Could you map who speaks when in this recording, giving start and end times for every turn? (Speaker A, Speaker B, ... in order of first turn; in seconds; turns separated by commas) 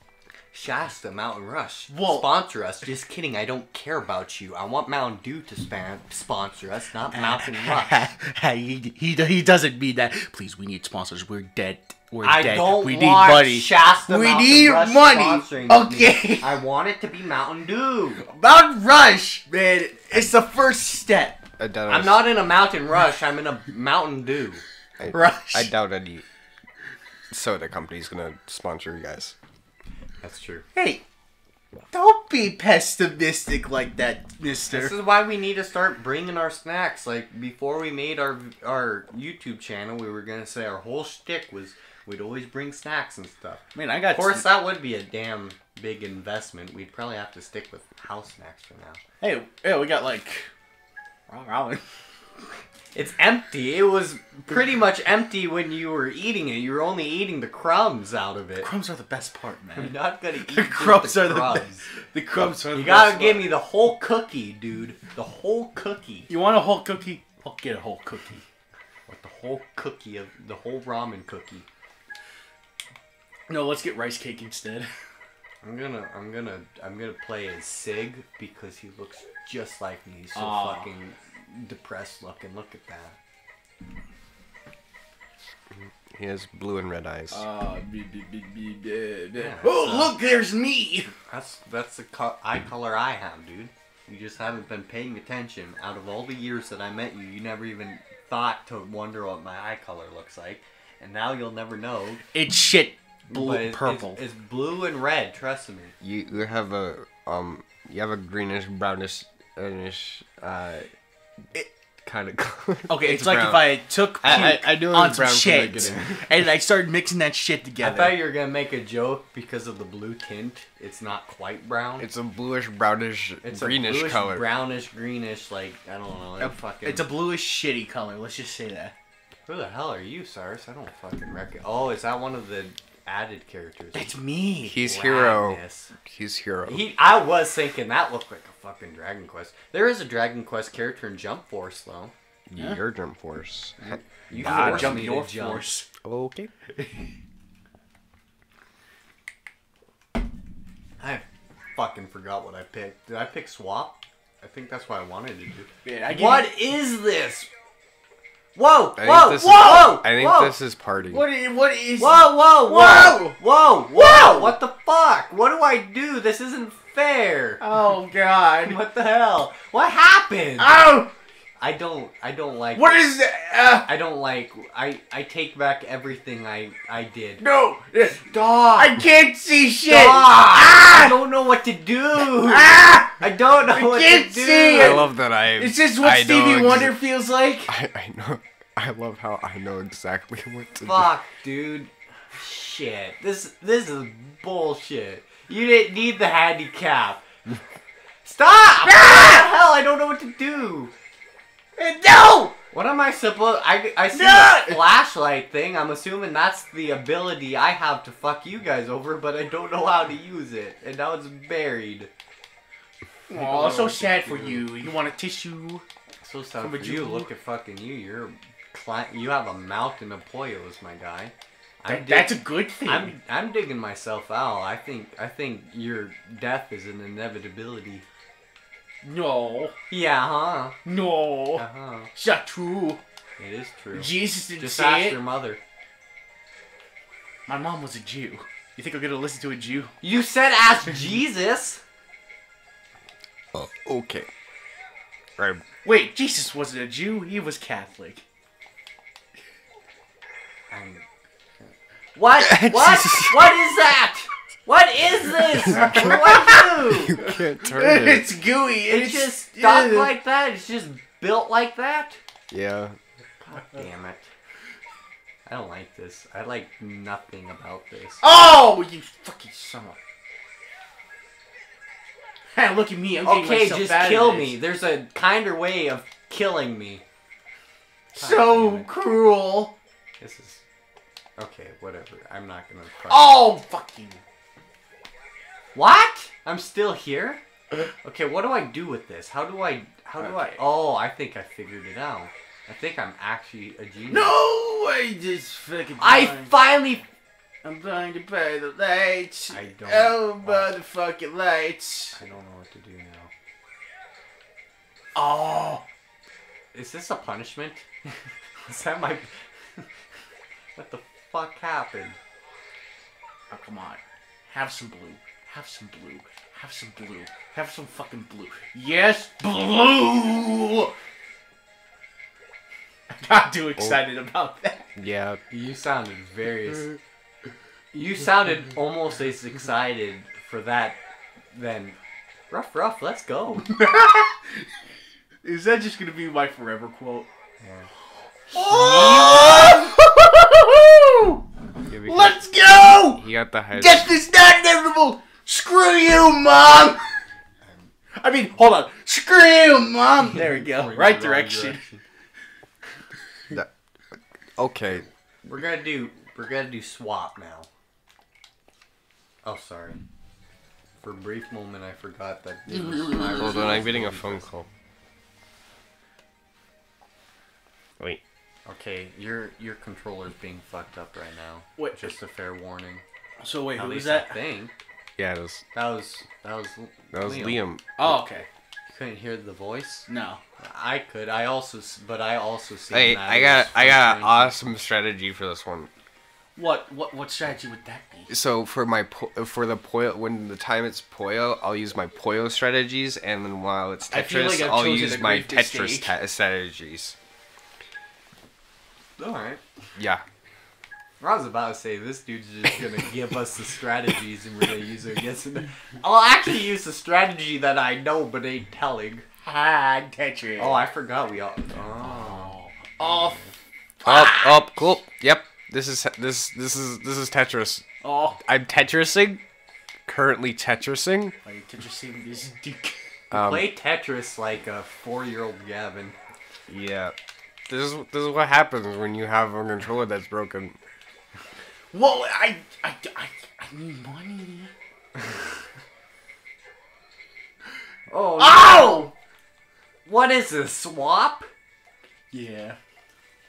Speaker A: 0.5-8.1, Speaker B: 1.9-2.3, Speaker B: 7.1-16.5, Speaker A: 12.2-18.2, Speaker B: 18.2-21.4, Speaker C: 21.6-22.3, Speaker A: 21.9-24.6, Speaker C: 25.0-26.2, Speaker B: 25.1-25.7, Speaker C: 27.3-29.4, Speaker A: 30.2-30.7, Speaker B: 30.8-31.0, Speaker B: 31.9-35.0, Speaker A: 34.7-49.0, Speaker B: 43.8-44.5, Speaker B: 49.2-50.5, Speaker B: 51.3-51.8, Speaker A: 52.9-58.7, Speaker B: 58.6-63.5, Speaker A: 59.8-61.9, Speaker A: 62.7-66.3, Speaker B: 66.3-68.5, Speaker A: 69.1-71.7, Speaker B: 73.5-74.9, Speaker A: 75.6-83.2, Speaker B: 80.3-80.9, Speaker C: 85.7-87.4, Speaker B: 87.3-91.1, Speaker A: 89.3-90.1, Speaker A: 91.3-102.2, Speaker B: 102.3-104.2, Speaker A: 103.3-105.9, Speaker C: 106.0-110.9, Speaker C: 112.0-116.4, Speaker B: 112.9-118.2, Speaker A: 117.8-122.1, Speaker C: 122.0-124.5, Speaker A: 123.4-127.1, Speaker B: 126.4-128.9, Speaker A: 129.5-134.1, Speaker B: 133.9-134.8, Speaker C: 134.7-136.8, Speaker A: 134.8-135.9, Speaker A: 136.7-142.1, Speaker C: 142.5-145.1, Speaker A: 143.8-145.8, Speaker B: 144.3-145.9, Speaker C: 146.0-146.5, Speaker A: 151.0-157.5, Speaker B: 155.8-156.5, Speaker A: 158.6-160.6, Speaker C: 159.0-161.2, Speaker B: 159.4-160.0, Speaker B: 161.1-163.4, Speaker A: 162.0-167.6, Speaker B: 163.9-164.6, Speaker B: 167.6-168.8, Speaker A: 168.7-170.8, Speaker B: 170.6-171.1, Speaker A: 171.6-173.0, Speaker B: 172.8-173.9, Speaker A: 173.9-177.4, Speaker B: 177.4-181.2, Speaker A: 178.2-178.9, Speaker A: 179.9-185.1, Speaker B: 182.2-187.7, Speaker C: 184.7-187.0, Speaker C: 187.7-191.1, Speaker A: 190.8-197.2, Speaker A: 198.2-200.9, Speaker B: 198.9-199.5, Speaker B: 201.8-202.6, Speaker A: 202.7-212.1, Speaker B: 204.1-204.8, Speaker B: 213.3-215.8, Speaker A: 213.3-214.6, Speaker A: 216.2-228.0, Speaker B: 216.6-217.3, Speaker B: 221.9-223.1, Speaker B: 229.0-229.8, Speaker A: 229.9-230.8, Speaker B: 230.8-233.0, Speaker A: 231.6-232.1, Speaker A: 233.4-235.6, Speaker B: 233.9-235.2, Speaker B: 237.5-239.9, Speaker A: 240.0-241.8, Speaker C: 243.5-244.3, Speaker C: 245.4-245.6, Speaker B: 245.8-248.2, Speaker A: 250.7-251.0, Speaker A: 251.6-257.2, Speaker B: 252.5-253.5, Speaker B: 255.7-256.5, Speaker C: 255.7-256.2, Speaker C: 256.8-258.3, Speaker B: 257.2-260.1, Speaker A: 258.9-262.2, Speaker C: 262.5-263.0, Speaker A: 263.4-264.3, Speaker A: 265.5-268.3, Speaker B: 268.2-270.0, Speaker B: 272.6-274.6, Speaker A: 273.2-277.0, Speaker A: 278.1-278.9, Speaker B: 278.1-279.8, Speaker A: 280.2-280.6, Speaker A: 281.4-283.4, Speaker B: 283.1-284.2, Speaker A: 285.8-287.4, Speaker A: 288.0-294.4, Speaker B: 290.2-290.6, Speaker B: 294.1-296.5, Speaker A: 296.0-297.1, Speaker B: 297.6-302.2, Speaker A: 299.5-300.7, Speaker A: 302.2-303.3, Speaker B: 305.1-305.8, Speaker A: 306.7-309.9, Speaker A: 310.8-312.2, Speaker B: 313.5-320.9, Speaker B: 323.1-324.9, Speaker C: 325.0-325.4, Speaker A: 325.5-327.0, Speaker A: 327.9-331.0, Speaker A: 331.5-332.0, Speaker A: 332.5-333.7, Speaker B: 333.7-334.7, Speaker B: 335.4-337.3, Speaker A: 337.6-337.9, Speaker A: 338.5-339.9, Speaker B: 338.5-341.4, Speaker C: 341.9-344.1, Speaker B: 342.0-347.1, Speaker A: 347.6-347.9, Speaker B: 348.2-351.8, Speaker A: 350.5-352.0, Speaker C: 353.5-355.1, Speaker A: 355.4-357.7, Speaker A: 359.4-360.0, Speaker A: 361.0-364.5, Speaker B: 362.9-363.6, Speaker C: 363.3-364.7, Speaker A: 368.7-373.0, Speaker B: 371.8-372.1, Speaker B: 373.4-374.4, Speaker A: 373.8-374.8, Speaker C: 375.2-375.6, Speaker A: 375.7-377.6, Speaker C: 377.1-378.2, Speaker B: 378.0-378.5, Speaker A: 378.9-380.1, Speaker B: 380.1-380.4, Speaker A: 380.6-384.6, Speaker C: 382.9-385.9, Speaker B: 386.6-388.3, Speaker C: 388.3-397.2, Speaker B: 394.1-396.1, Speaker A: 399.2-399.6, Speaker C: 400.0-400.2, Speaker A: 401.2-409.3, Speaker B: 409.4-410.8, Speaker A: 410.6-413.5, Speaker B: 412.0-413.4, Speaker B: 414.0-414.7, Speaker C: 414.1-417.9, Speaker B: 418.0-418.4, Speaker C: 418.4-419.4, Speaker C: 420.1-421.4, Speaker B: 421.4-423.0, Speaker C: 423.3-423.7, Speaker A: 423.3-426.2, Speaker C: 426.7-427.1, Speaker C: 427.7-430.8, Speaker B: 431.9-434.7, Speaker A: 438.1-439.1, Speaker B: 438.4-439.1, Speaker A: 440.1-441.5, Speaker B: 442.3-442.8